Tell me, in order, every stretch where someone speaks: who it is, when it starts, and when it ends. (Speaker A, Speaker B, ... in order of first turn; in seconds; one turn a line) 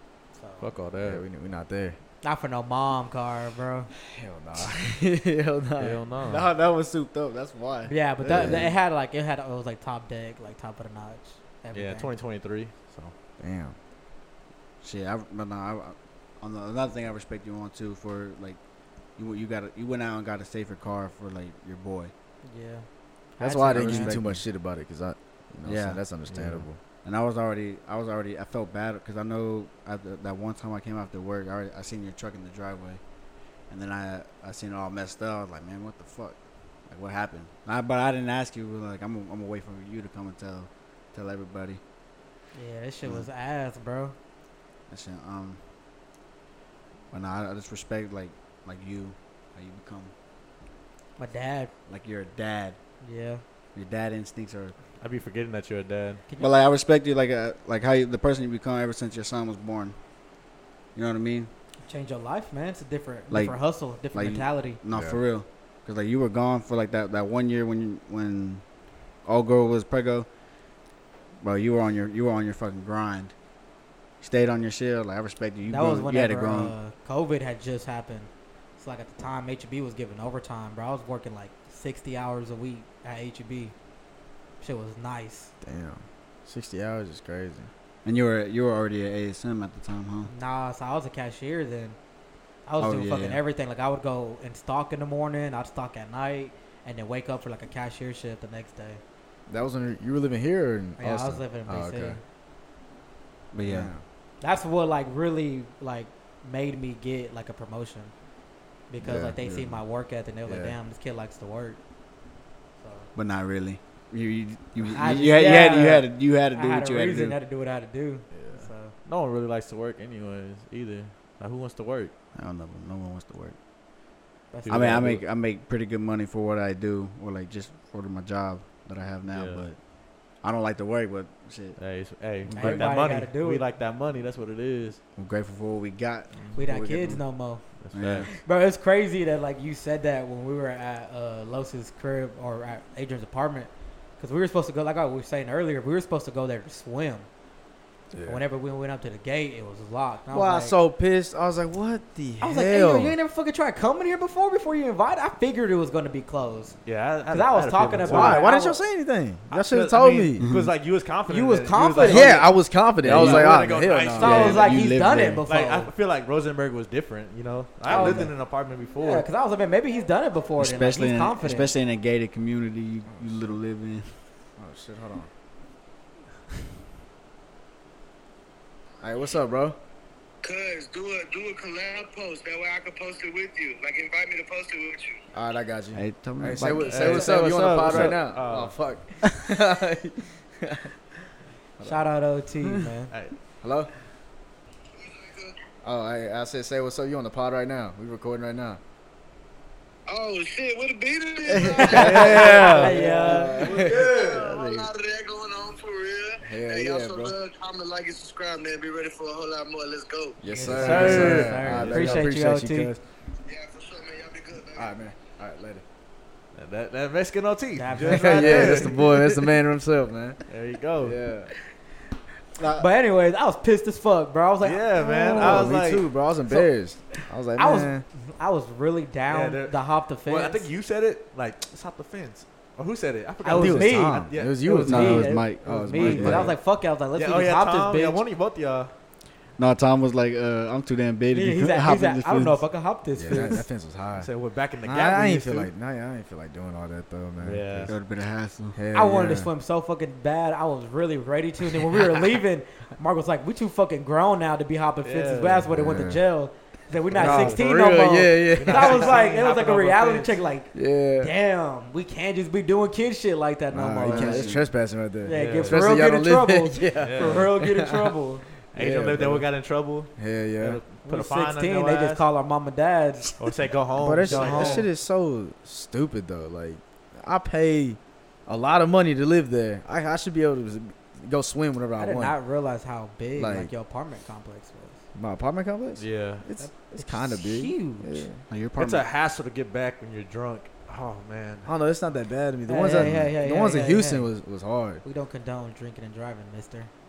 Speaker A: 0.4-0.7
Speaker B: 0.6-1.2
Speaker C: 1.0-2.0
Speaker A: 2.2-3.9
Speaker C: 4.0-6.0
Speaker B: 5.8-6.5
Speaker D: 6.2-8.7
Speaker A: 7.9-12.1
Speaker C: 8.2-8.7
Speaker B: 11.7-13.1
Speaker C: 13.4-13.8
Speaker D: 14.8-18.6
Speaker D: 19.2-22.1
Speaker A: 22.4-24.2
Speaker C: 23.4-26.8
Speaker D: 23.4-24.4
Speaker D: 25.7-33.0
Speaker D: 33.7-41.8
Speaker A: 42.5-44.1
Speaker D: 44.9-45.6
Speaker D: 47.1-50.1
Speaker A: 51.2-51.7
Speaker D: 51.9-52.8
Speaker A: 53.0-53.4
Speaker D: 53.8-54.8
Speaker B: 55.0-56.2
Speaker A: 56.3-56.6
Speaker D: 56.4-60.0
Speaker D: 60.9-61.5
Speaker A: 61.8-64.8
Speaker D: 63.3-63.6
Speaker D: 64.1-68.6
Speaker C: 64.9-65.2
Speaker D: 69.2-70.3
Speaker D: 71.4-73.3
Speaker D: 74.2-76.7
Speaker A: 75.7-83.7
Speaker A: 84.6-85.5
Speaker C: 85.6-87.7
Speaker D: 88.0-90.3
Speaker A: 90.3-92.0
Speaker A: 92.7-99.0
Speaker D: 92.8-93.4
Speaker C: 99.5-102.2
Speaker A: 101.0-102.2
Speaker D: 103.5-103.9
Speaker C: 103.6-104.0
Speaker A: 104.4-108.1
Speaker A: 108.9-111.8
Speaker C: 109.0-109.8
Speaker C: 110.5-110.8
Speaker A: 112.8-113.1
Speaker D: 113.2-117.4
Speaker A: 114.9-118.9
Speaker B: 118.3-122.1
Speaker D: 122.3-123.6
Speaker A: 124.5-125.0
Speaker B: 124.7-125.2
Speaker D: 124.7-129.8
Speaker B: 129.3-129.7
Speaker D: 130.4-131.8
Speaker B: 131.8-135.0
Speaker D: 132.5-132.9
Speaker A: 132.6-133.7
Speaker D: 135.2-137.2
Speaker A: 136.6-137.6
Speaker B: 137.8-138.3
Speaker D: 137.9-138.3
Speaker A: 138.3-147.3
Speaker C: 148.1-148.4
Speaker A: 148.2-150.8
Speaker C: 150.3-153.2
Speaker A: 152.4-156.8
Speaker B: 156.8-158.4
Speaker A: 157.3-158.8
Speaker C: 158.0-160.4
Speaker B: 159.5-162.4
Speaker D: 160.4-160.7
Speaker A: 161.3-162.5
Speaker C: 162.0-164.7
Speaker D: 163.0-165.4
Speaker B: 163.1-164.8
Speaker A: 164.2-165.9
Speaker B: 165.5-169.3
Speaker D: 167.9-168.3
Speaker A: 167.9-168.3
Speaker A: 169.0-171.8
Speaker D: 170.6-174.1
Speaker C: 173.1-173.5
Speaker C: 174.6-175.3
Speaker C: 179.0-179.8
Speaker E: 180.4-185.2
Speaker C: 185.3-190.9
Speaker D: 185.9-188.2
Speaker B: 186.8-188.7
Speaker A: 191.8-193.1
Speaker C: 193.6-193.9
Speaker E: 194.9-195.6
Speaker C: 195.8-198.8
Speaker E: 200.1-202.7
Speaker D: 201.5-203.4
Speaker B: 201.8-203.0
Speaker A: 202.4-203.6
Speaker C: 202.8-204.1
Speaker B: 203.6-204.6
Speaker E: 203.6-210.4
Speaker D: 204.5-204.9
Speaker C: 206.4-207.3
Speaker C: 210.4-213.0
Speaker A: 210.5-212.9
Speaker B: 210.8-212.2
Speaker E: 213.4-214.9
Speaker C: 214.8-215.8
Speaker B: 216.6-219.0
Speaker A: 217.8-219.4
Speaker C: 218.0-220.4
Speaker B: 220.5-221.2
Speaker C: 221.0-221.5
Speaker D: 222.6-222.9
Speaker A: 222.8-225.7
Speaker B: 224.6-226.1
Speaker C: 225.1-228.1
Speaker A: 227.6-230.7
Speaker B: 229.3-234.6
Speaker A: 233.4-238.2
Speaker C: 233.5-236.5
Speaker D: 234.8-236.5
Speaker B: 237.2-238.9
Speaker D: 239.6-242.6
Speaker A: 241.3-243.6
Speaker C: 243.2-244.3
Speaker B: 244.2-245.7
Speaker C: 244.8-247.9
Speaker B: 247.4-247.9
Speaker D: 247.9-248.8
Speaker C: 248.8-249.5
Speaker A: 248.9-264.6
Speaker B: 255.0-255.7
Speaker C: 255.7-256.2
Speaker C: 257.1-259.2
Speaker B: 257.1-257.6
Speaker B: 258.5-260.4
Speaker C: 260.7-261.3
Speaker C: 263.7-268.1
Speaker D: 264.0-264.6
Speaker A: 265.2-268.4
Speaker B: 265.3-265.8
Speaker B: 267.0-267.5
Speaker C: 268.7-269.5
Speaker B: 268.7-272.2
Speaker C: 270.2-270.8
Speaker A: 271.1-273.4
Speaker B: 273.4-274.8
Speaker C: 274.0-282.4
Speaker A: 274.2-274.8
Speaker A: 282.0-285.0
Speaker C: 283.4-283.7
Speaker C: 285.1-288.4
Speaker B: 286.0-286.4
Speaker A: 286.6-288.3
Speaker D: 288.5-289.0
Speaker B: 288.8-291.7
Speaker C: 291.6-295.0
Speaker A: 292.7-294.3
Speaker D: 292.9-293.2
Speaker A: 295.0-296.9